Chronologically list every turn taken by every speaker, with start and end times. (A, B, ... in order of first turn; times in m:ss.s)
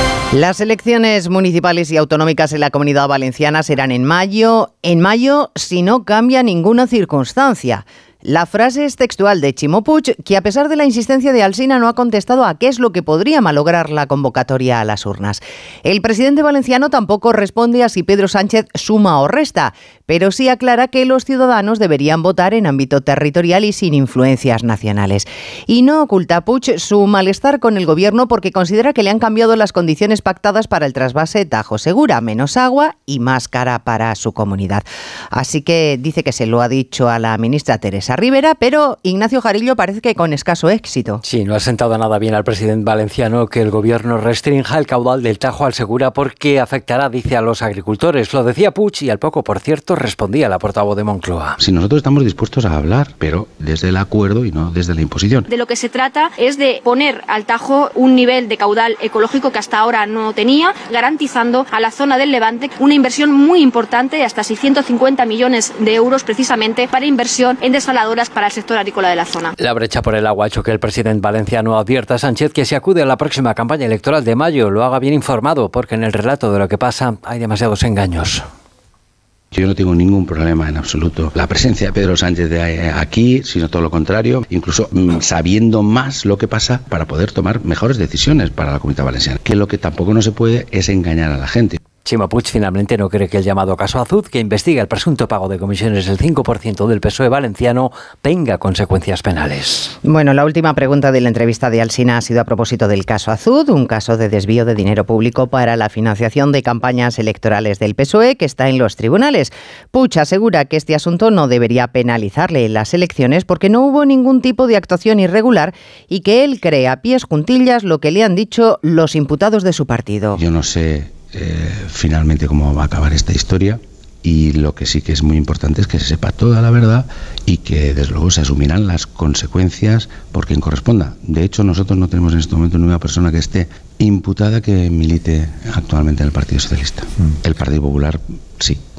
0:00.3-0:41.2 A
0:41.2-0:51.6 B
0:51.6-0:55.5 C
0:55.5-1:09.5 D
1:09.6-1:18.4 B
1:19.5-1:31.8 C
1:32.0-1:39.9 B
1:40.0-2:00.4 A
2:00.4-2:18.8 C